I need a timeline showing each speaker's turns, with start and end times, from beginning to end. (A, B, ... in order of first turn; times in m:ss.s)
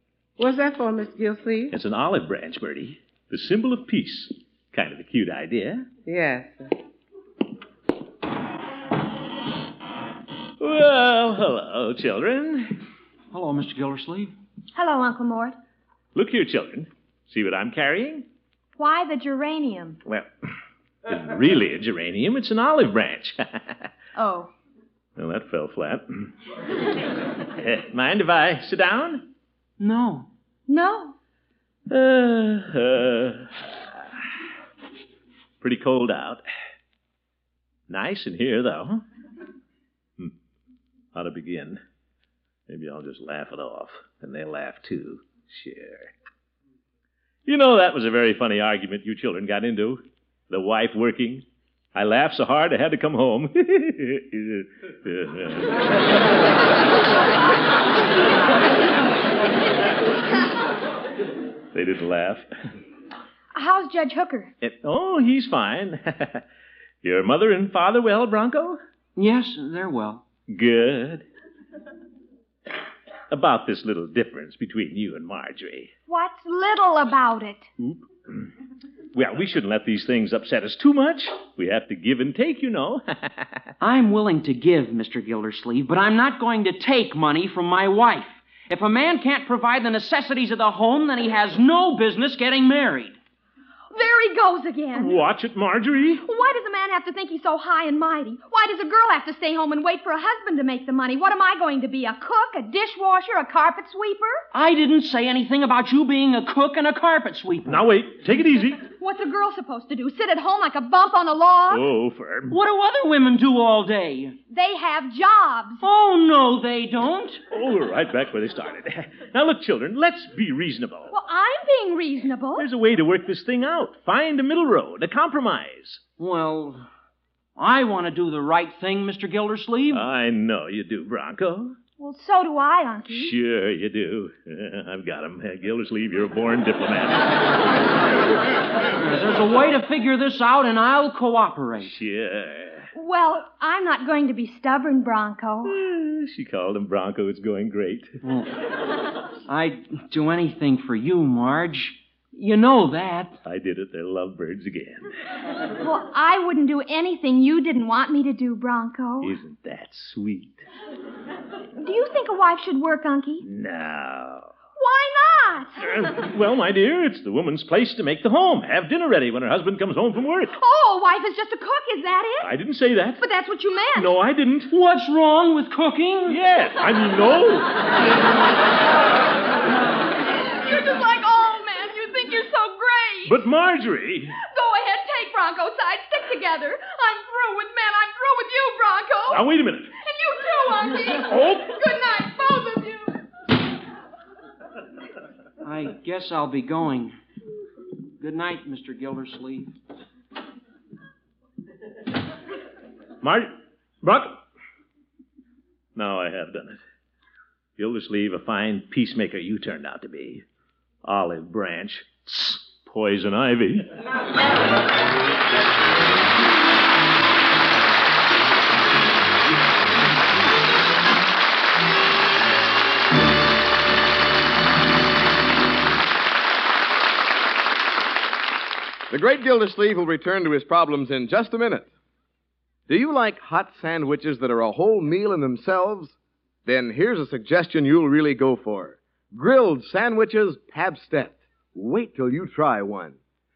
0:00.4-0:01.7 A
0:01.7-0:05.8 B
0:06.0-0:06.7 A
0:10.6-0:12.7 B
0:13.3-0:14.3 C
0:14.7-0:15.6 D
0:16.1-0:18.2 B
0:18.8-0:20.0 D
0:21.1-0:23.9 B
0:24.2-0:24.5 D
0:25.2-0:26.3 B
0:27.5-0:29.3 B
0:29.8-0:30.3 C
0:30.7-0:31.1 D
0:31.9-0:33.6 B
0:35.6-0:36.4 B
0:37.9-0:39.0 B
0:41.1-0:41.8 B
0:42.7-0:46.1 B
0:47.4-0:56.0 B
1:01.7-1:02.5 B
1:03.5-1:04.5 D
1:04.6-1:06.4 B
1:07.0-1:08.8 B
1:09.2-1:10.2 C
1:10.5-1:11.2 B
1:13.3-1:15.9 B
1:16.1-1:17.7 D
1:17.8-1:18.5 B
1:19.1-1:23.7 B
1:23.8-1:33.2 C
1:33.9-1:35.2 D
1:35.0-1:36.2 B
1:36.2-1:44.4 D
1:44.5-1:47.8 C
1:47.7-1:48.8 B
1:49.0-1:51.8 D
1:51.7-1:52.6 B
1:52.5-1:54.4 C
1:54.5-1:55.8 D
1:55.8-1:57.4 C
1:57.5-2:01.1 B
2:01.1-2:02.6 D
2:02.6-2:06.0 B
2:06.2-2:06.9 C
2:07.6-2:10.0 C
2:09.9-2:11.8 B
2:12.0-2:13.4 D
2:13.1-2:17.4 B
2:18.9-2:21.9 C
2:21.8-2:22.9 B
2:22.9-2:25.8 D
2:25.6-2:28.2 B
2:28.2-2:28.5 C
2:29.5-2:33.4 C
2:33.4-2:35.1 B
2:35.8-2:39.3 D
2:39.2-2:40.6 B
2:41.8-2:43.4 D
2:43.4-2:44.5 B
2:44.8-2:46.1 D
2:45.8-2:50.6 B
2:50.6-2:52.5 D
2:52.4-2:53.2 B
2:53.2-2:54.1 D
2:54.0-2:54.7 B
2:54.7-2:56.4 C
2:56.3-2:57.7 B
3:00.5-3:03.4 D
3:03.2-3:04.4 B
3:04.4-3:09.4 D
3:09.3-3:09.9 B
3:10.0-3:13.2 D
3:11.2-3:11.7 B
3:15.6-3:17.1 C
3:18.2-3:19.7 C
3:23.2-3:24.4 B
3:25.9-3:26.8 B
3:27.8-3:30.4 B
3:31.0-3:33.9 B
3:49.1-3:51.9 E
3:52.9-3:56.1 E
3:56.6-4:03.2 E